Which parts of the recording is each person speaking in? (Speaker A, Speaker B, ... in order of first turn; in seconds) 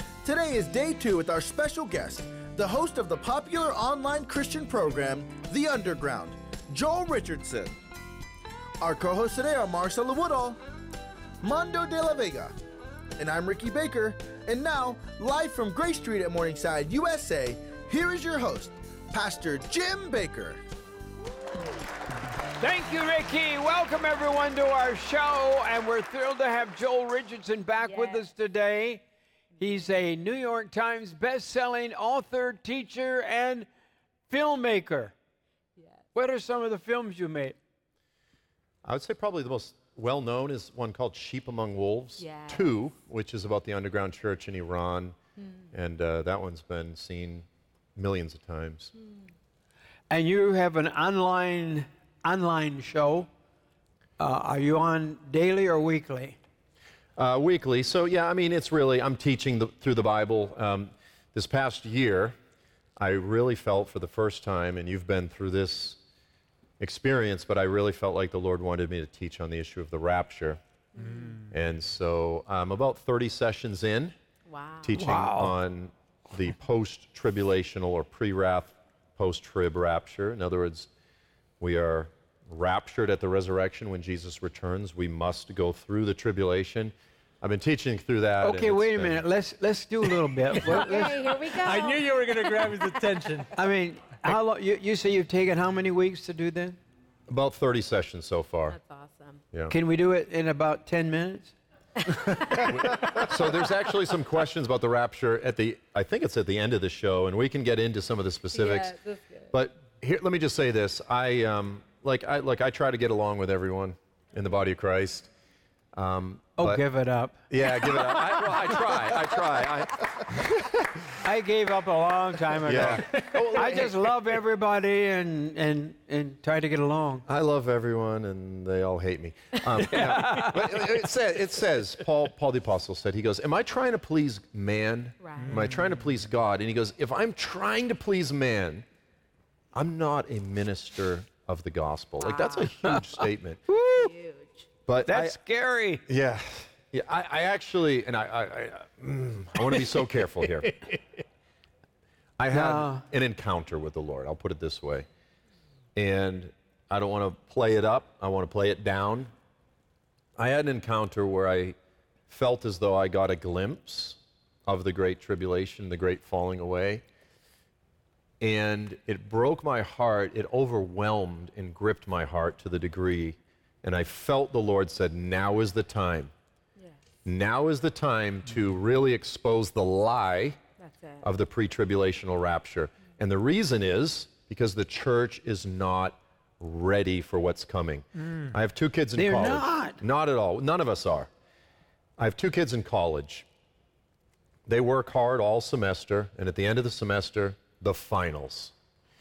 Speaker A: 0.2-7.8, 8.8-10.6, 11.4-12.5, 13.2-20.6
Speaker B: 22.6-29.0, 29.6-33.7, 34.3-35.1, 36.1-37.6, 50.1-53.3, 54.2-56.4, 75.0-75.5, 88.4-91.4, 93.5-96.8, 99.7-101.5, 116.6-117.4, 121.2-127.2, 129.9-130.7, 142.8-144.1, 145.1-146.0, 152.5-153.0, 189.2-190.0
Speaker C: 27.8-28.3, 29.6-29.9, 35.8-36.0, 42.2-42.7, 45.4-45.6, 49.0-49.3, 71.0-71.4, 74.5-75.1, 90.6-92.6, 98.7-99.4, 102.0-103.2, 108.5-109.4, 135.2-135.6, 142.2-142.7, 143.9-144.7, 180.8-181.2
Speaker D: 38.8-45.1, 45.7-48.9, 57.2-62.4, 63.0-66.0, 66.8-70.6, 71.5-74.1, 74.8-80.9, 81.6-89.2, 97.3-98.8, 102.5-109.0, 109.5-115.3, 115.9-116.8, 117.5-121.1, 122.6-124.1, 127.2-138.8, 139.7-143.6, 144.9-145.4, 146.1-150.8, 152.4-155.1, 155.9-159.3, 160.4-161.8, 162.3-167.0, 168.4-176.3, 177.2-180.6, 181.2-191.3, 192.2-193.4, 194.7-198.7
Speaker E: 71.0-71.5, 90.8-93.5, 135.4-135.9, 188.2-188.5